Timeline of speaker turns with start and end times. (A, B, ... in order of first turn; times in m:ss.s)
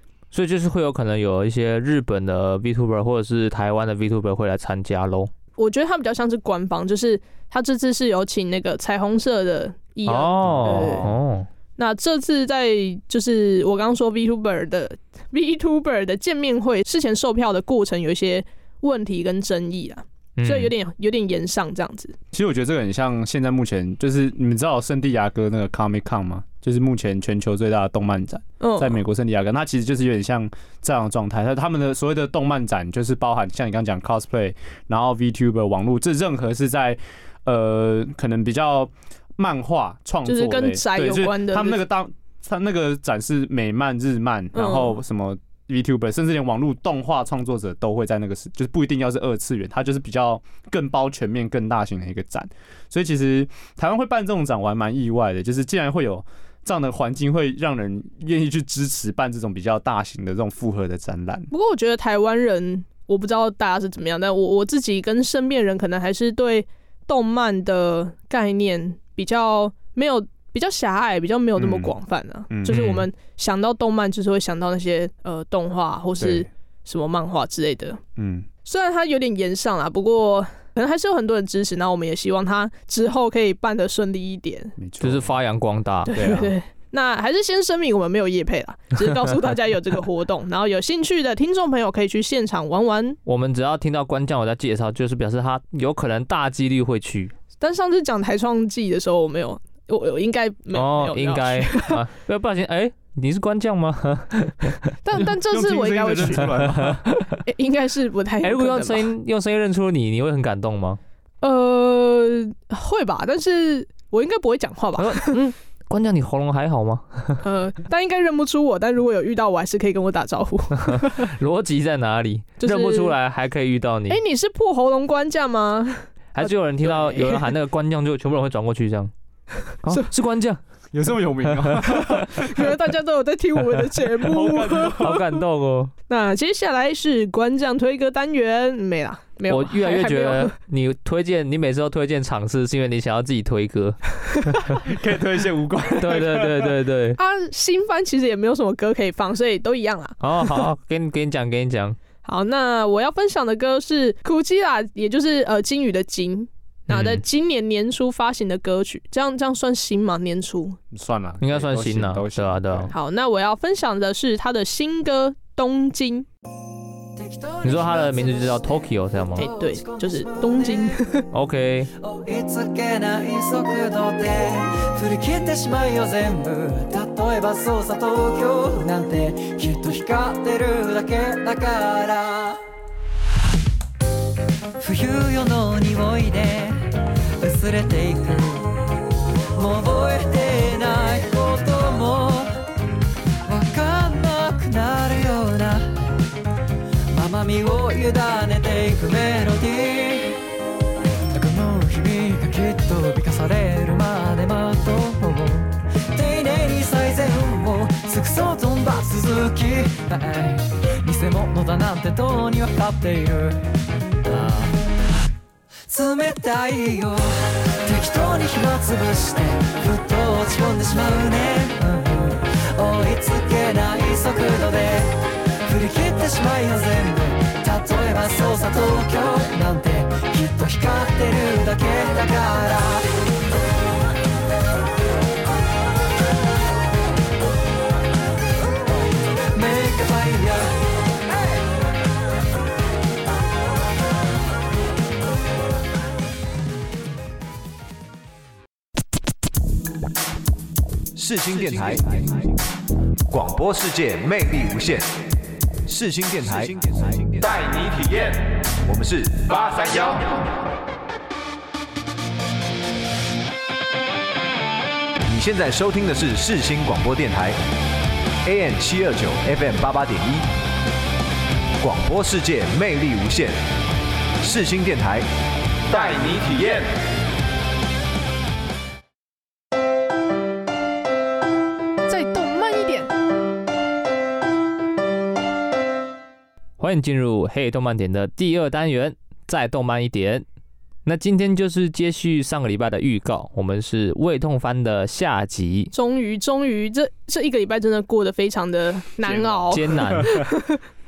0:00.3-0:05.3 A
0:05.6-0:11.0 B
0:10.0-0:11.5 A
0:10.4-0:11.1 C
0:11.8-0:22.2 B
0:20.4-0:20.7 A
0:22.3-1:01.5 C
0:28.6-0:29.0 B
0:40.2-0:41.8 B
0:44.5-0:45.0 B
1:01.5-1:18.0 B
1:11.6-1:11.9 C
1:12.5-1:12.8 C
1:12.7-1:13.1 A
1:16.2-1:16.5 C
1:18.2-1:18.5 C
1:18.6-1:24.7 B
1:24.8-1:25.3 C
1:25.0-1:26.2 A
1:26.1-1:33.2 B
1:26.1-1:26.5 C
1:33.2-1:37.3 A
1:37.6-1:42.0 B
1:40.7-1:44.8 A
1:45.0-1:46.5 B
1:45.2-1:47.0 C
1:47.4-1:49.1 B
1:48.4-1:51.0 A
1:51.4-1:55.4 B
1:55.0-1:57.4 A
1:57.4-2:01.3 B
2:00.8-2:04.2 A
2:02.6-2:03.1 B
2:04.1-2:07.5 B
2:06.3-2:09.1 A
2:09.8-2:10.6 A
2:10.9-2:12.4 C
2:11.9-2:15.3 B
2:14.2-2:15.2 C
2:15.0-2:15.9 A
2:16.1-2:20.5 B
2:19.5-2:24.7 A
2:24.7-2:26.8 C
2:26.0-2:27.2 A
2:27.2-2:30.6 B
2:30.2-2:32.0 A
2:32.2-2:40.8 B
2:36.9-2:37.2 A
2:40.9-2:42.9 C
2:41.4-2:42.9 A
2:42.9-2:46.3 B
2:47.2-2:51.0 D
2:47.6-2:49.5 A
2:49.4-2:51.2 B
2:51.3-2:51.9 A
2:52.0-3:02.6 D
3:04.8-3:06.8 D
3:07.4-3:08.8 D
3:09.5-3:12.5 D
3:13.4-3:16.0 D
3:17.1-3:20.4 D
3:21.3-3:33.6 D
3:34.3-3:34.7 A
3:34.3-3:34.7 D
3:35.9-3:53.1 D
3:59.5-4:00.8 D
4:11.2-4:12.5 E
4:13.3-4:15.2 E
4:15.8-4:20.3 E
4:25.2-4:27.6 E
4:28.4-4:30.5 E
4:31.8-4:33.6 E
4:34.4-4:35.2 E
4:35.9-4:36.9 E
4:42.1-4:43.1 B
4:46.8-4:50.4 A
4:51.0-4:55.9 A
4:55.9-5:00.8 B
4:59.2-5:00.3 C
4:59.7-5:00.3 A